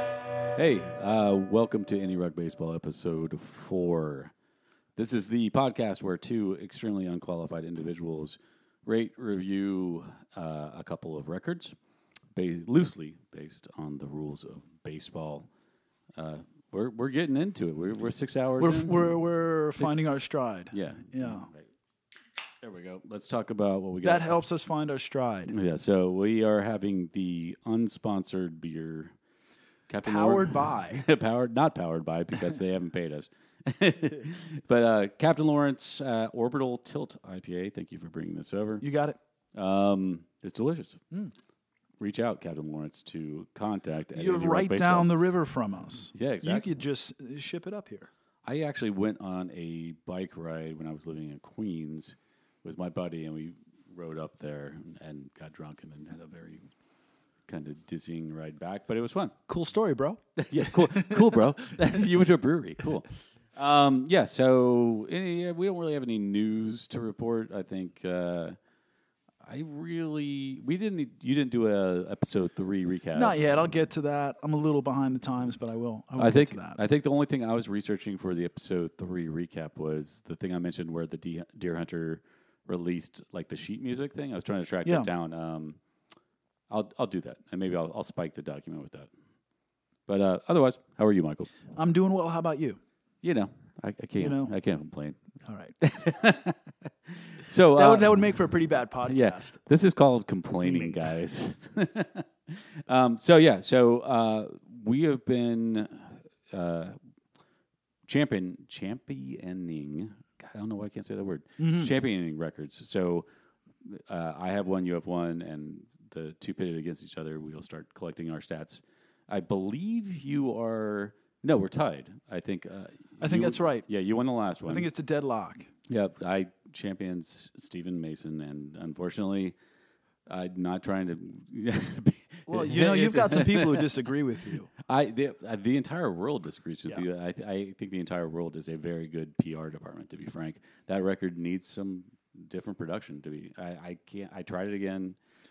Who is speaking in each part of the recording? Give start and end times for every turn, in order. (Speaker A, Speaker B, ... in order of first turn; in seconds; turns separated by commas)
Speaker A: 0.6-4.3, Speaker A: 5.0-11.8, Speaker A: 12.3-15.5, Speaker A: 16.1-19.2, Speaker B: 18.6-21.5, Speaker A: 20.7-21.7, Speaker A: 22.6-24.4, Speaker B: 24.0-25.6, Speaker A: 25.5-29.1, Speaker A: 29.9-38.9, Speaker B: 30.0-31.1, Speaker B: 38.8-39.2, Speaker A: 39.5-41.0, Speaker A: 42.0-45.2, Speaker B: 44.1-48.1, Speaker A: 46.1-46.7, Speaker A: 48.5-56.7, Speaker A: 57.5-59.4, Speaker B: 59.5-61.8, Speaker A: 60.4-68.6, Speaker A: 69.4-73.4, Speaker B: 73.1-76.8, Speaker A: 76.2-85.8, Speaker A: 86.7-89.1, Speaker A: 90.1-91.5, Speaker B: 91.8-92.8, Speaker A: 93.2-95.2, Speaker B: 94.2-94.5, Speaker B: 95.4-95.8, Speaker A: 95.8-98.4, Speaker B: 97.7-99.6, Speaker A: 99.1-107.0, Speaker B: 100.6-101.0, Speaker A: 108.1-113.3, Speaker B: 111.6-111.9, Speaker A: 113.8-124.9, Speaker B: 123.2-123.9, Speaker B: 124.7-125.7, Speaker A: 125.9-129.6, Speaker A: 130.3-133.9, Speaker B: 132.5-134.7, Speaker A: 134.8-145.2